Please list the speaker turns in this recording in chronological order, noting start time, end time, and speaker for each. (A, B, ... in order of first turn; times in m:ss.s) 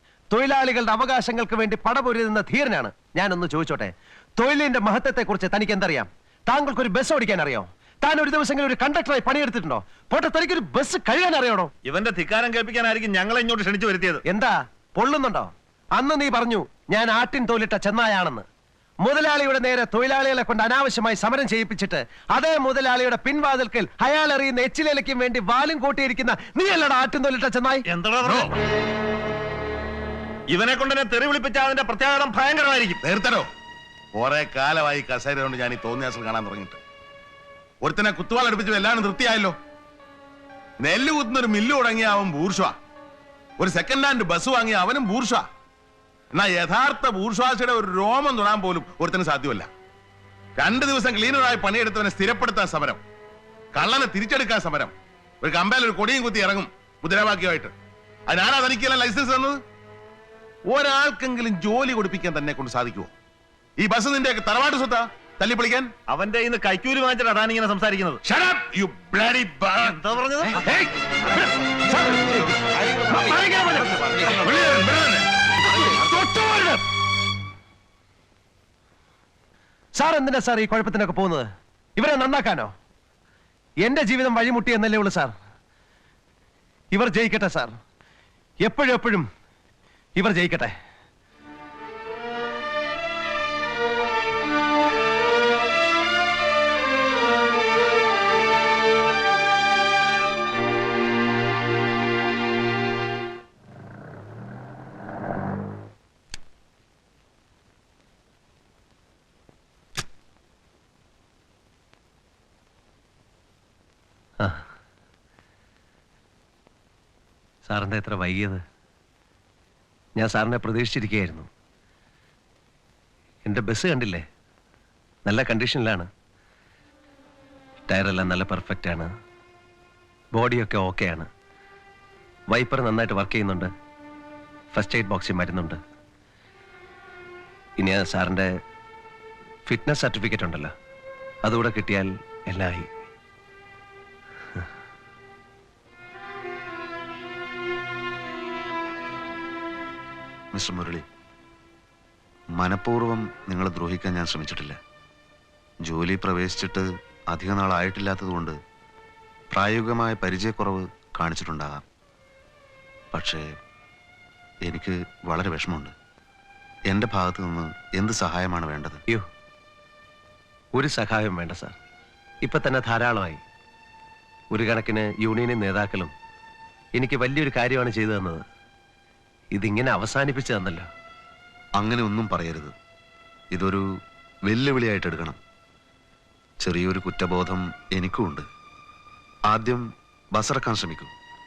0:00.3-0:11.7 A
0:11.8-0:14.2 B
0:14.2-0:18.4 A
0:19.0-0:27.8 A
0:27.9-0:28.5 B
0:28.2-0:28.5 C
0:30.5-0:33.0 B
0:33.0-0:33.4 C
0:34.1-0:36.8 C
0:37.8-0:39.5 C
0:40.8-0:42.7 C
0:43.6-0:45.4 C
0:46.3-0:49.7 C
0:50.6-0:53.0 C
0:53.7-0:57.7 C
0:58.3-0:59.6 C
1:00.7-1:03.1 C
1:03.8-1:05.9 C
1:06.1-1:08.2 B
1:08.3-1:09.9 C
1:09.8-1:10.8 B
1:11.9-1:15.0 B
1:13.1-1:14.0 A
1:14.5-1:15.2 C
1:15.8-1:16.2 B
1:20.0-1:21.4 A
1:22.0-1:22.7 A
1:23.8-1:25.3 A
1:26.9-1:27.7 A
1:28.6-1:29.2 A
1:30.2-1:30.7 A
1:57.7-1:58.6 A
2:00.2-2:01.5 A
2:03.5-2:04.2 A
2:05.2-2:06.1 A
2:07.9-2:09.1 A
2:10.3-2:11.3 A
2:12.5-2:13.7 A
2:14.7-2:15.8 A
2:17.8-2:18.5 A
2:19.7-2:20.7 A
2:21.4-2:22.9 A
2:30.5-2:31.0 D
2:32.5-2:34.8 D
2:35.8-2:38.5 D
2:39.5-2:41.8 D
2:43.1-2:43.4 D
2:44.6-2:45.9 D
2:46.9-2:49.0 D
2:50.7-2:51.7 A
2:52.4-2:53.4 A
2:54.5-2:56.1 A
2:57.0-2:58.4 A
2:59.5-3:00.9 A
3:01.8-3:02.7 D
3:03.5-3:03.8 D
3:04.4-3:05.4 D
3:06.6-3:08.4 D
3:09.5-3:11.1 D